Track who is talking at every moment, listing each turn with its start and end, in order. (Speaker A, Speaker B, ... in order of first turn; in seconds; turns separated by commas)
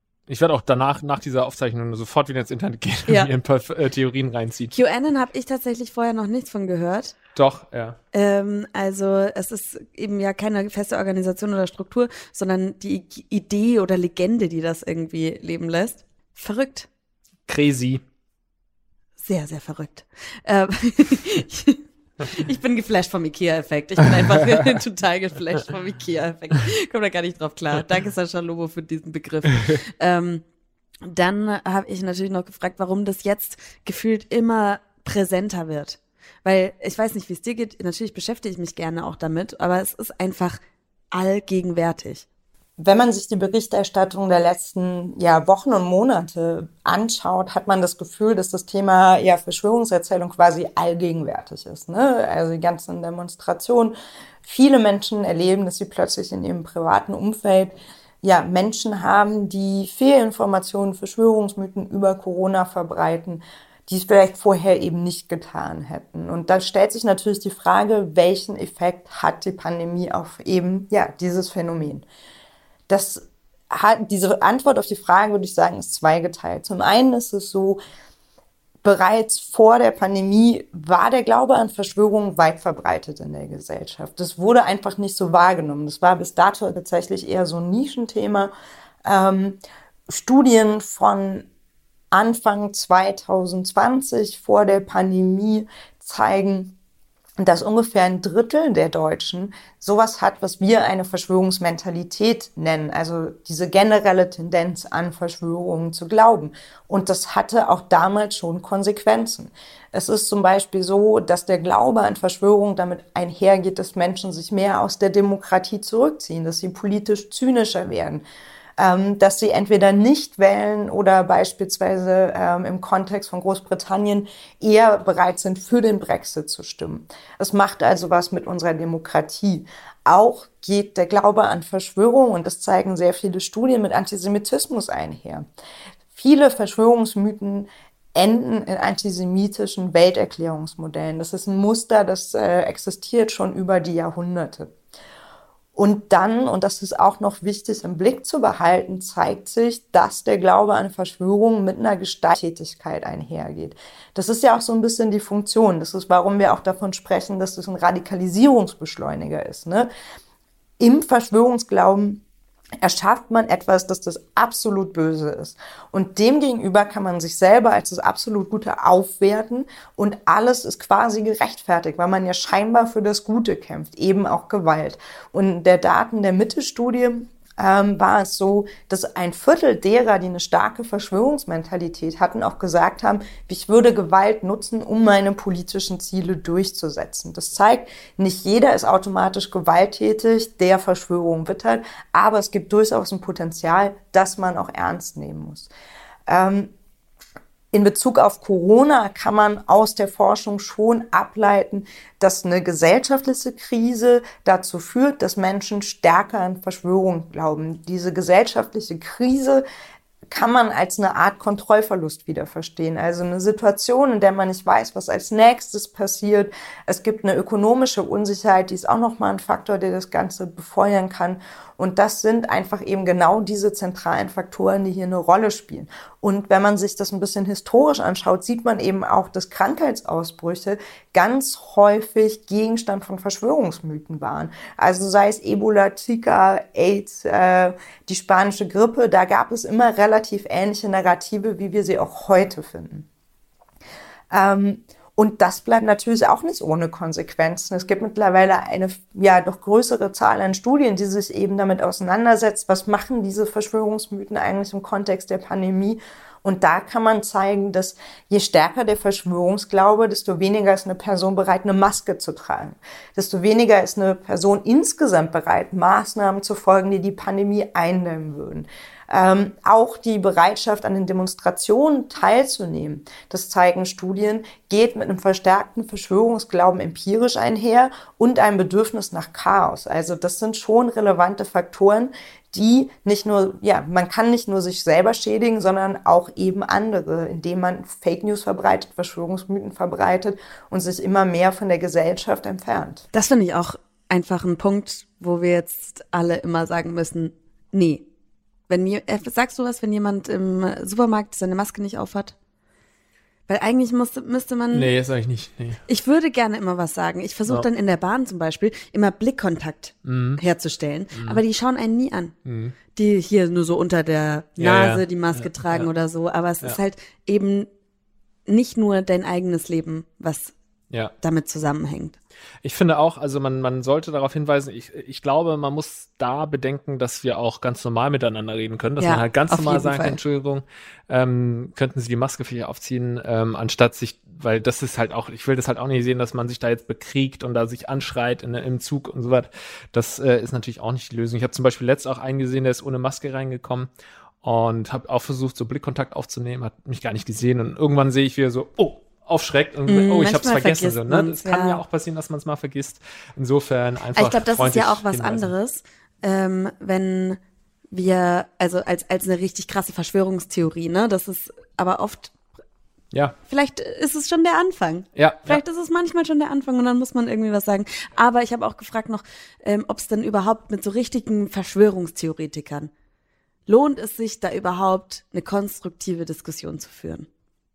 Speaker A: 0.3-4.8, Speaker B: 3.1-3.3, Speaker B: 4.7-7.2, Speaker A: 7.3-8.0, Speaker B: 8.1-16.9, Speaker A: 17.5-18.0, Speaker B: 19.2-30.4, Speaker A: 24.1-24.8, Speaker B: 31.0-40.6, Speaker B: 41.1-42.2, Speaker C: 42.8-72.1, Speaker C: 72.9-77.8, Speaker C: 78.8-88.5, Speaker C: 89.0-91.5, Speaker C: 92.1-96.7, Speaker C: 97.4-118.2, Speaker C: 118.8-135.5, Speaker C: 136.1-144.7, Speaker C: 145.8-159.9, Speaker C: 160.8-162.2, Speaker C: 162.8-195.7, Speaker C: 196.3-196.7, Speaker C: 197.7-209.7, Speaker C: 210.3-243.1, Speaker C: 244.3-293.0, Speaker B: 293.1-298.1, Speaker B: 298.7-302.4, Speaker B: 303.5-304.9, Speaker A: 304.7-305.8, Speaker B: 305.9-312.3, Speaker A: 310.1-310.4, Speaker A: 311.1-311.4, Speaker A: 312.4-312.8, Speaker B: 312.9-317.7, Speaker A: 314.6-315.9, Speaker B: 318.5-320.5, Speaker B: 321.2-322.2, Speaker A: 322.6-343.9, Speaker B: 329.0-330.2, Speaker A: 344.4-355.5, Speaker B: 349.9-351.8, Speaker B: 354.2-357.4, Speaker B: 357.9-362.3, Speaker B: 363.5-372.9, Speaker A: 365.2-365.6, Speaker B: 373.7-377.3